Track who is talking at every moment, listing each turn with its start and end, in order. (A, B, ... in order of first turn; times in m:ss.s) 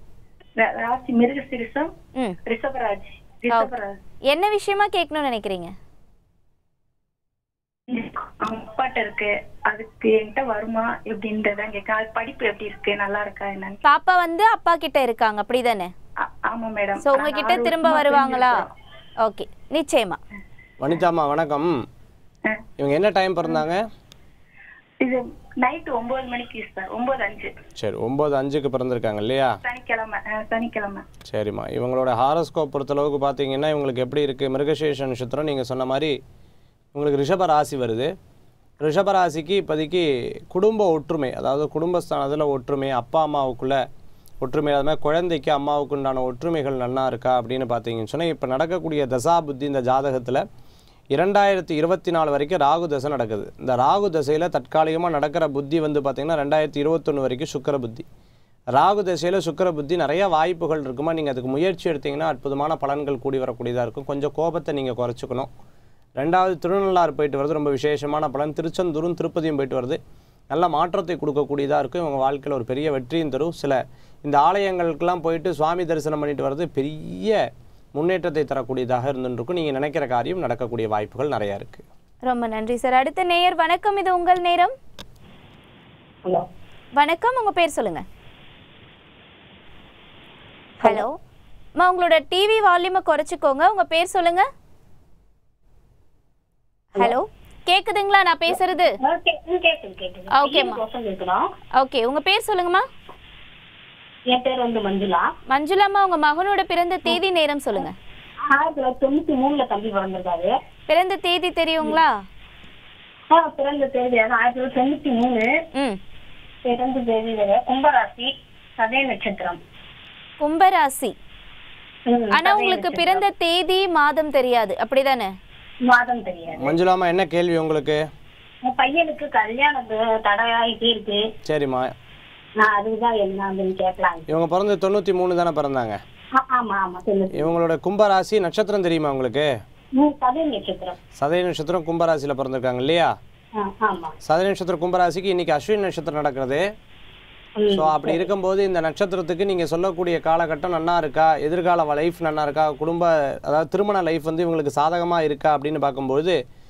0:00.6-0:01.9 A
0:02.4-0:03.9 A
0:04.3-0:05.7 B
0:07.9-0:13.8 A
0:13.8-0:15.9 B
0:16.2-0:18.6 A
0:17.0-0:18.6 B
0:19.2-0:20.2 B
0:20.8-0:21.7 C
0:22.8-0:23.8 C
0:25.0-0:27.5 A
0:27.8-0:29.6 C
0:29.6-0:31.0 A
0:31.2-0:36.1 C
0:36.9-0:38.1 C
0:38.8-0:43.8 C
0:44.4-0:50.4 C
0:51.1-0:58.0 C
0:58.7-1:05.5 C
1:06.2-1:10.0 C
1:10.5-1:17.4 C
1:18.0-1:21.8 C
1:22.2-1:24.7 B
1:27.0-1:28.0 B
1:30.8-1:31.1 B
1:31.8-1:34.4 B
1:37.0-1:38.9 B
1:39.0-1:41.4 D
1:40.3-1:40.8 B
1:41.8-1:42.8 B
1:44.3-1:45.3 D
1:45.5-1:47.9 B
1:48.5-1:50.5 D
1:50.9-1:52.2 B
1:53.3-1:55.5 D
1:56.6-1:59.6 D
2:00.4-2:01.1 B
2:02.1-2:03.2 D
2:02.3-2:05.3 B
2:05.9-2:06.7 D
2:06.6-2:08.0 C
2:08.6-2:11.2 D
2:11.4-2:11.9 C
2:12.6-2:14.2 D
2:14.3-2:16.0 C
2:16.4-2:17.4 D
2:17.3-2:19.5 C
2:20.0-2:21.0 D
2:21.2-2:23.1 C
2:23.6-2:24.1 D
2:24.2-2:26.6 C
2:27.6-2:28.3 D
2:27.7-2:36.4 C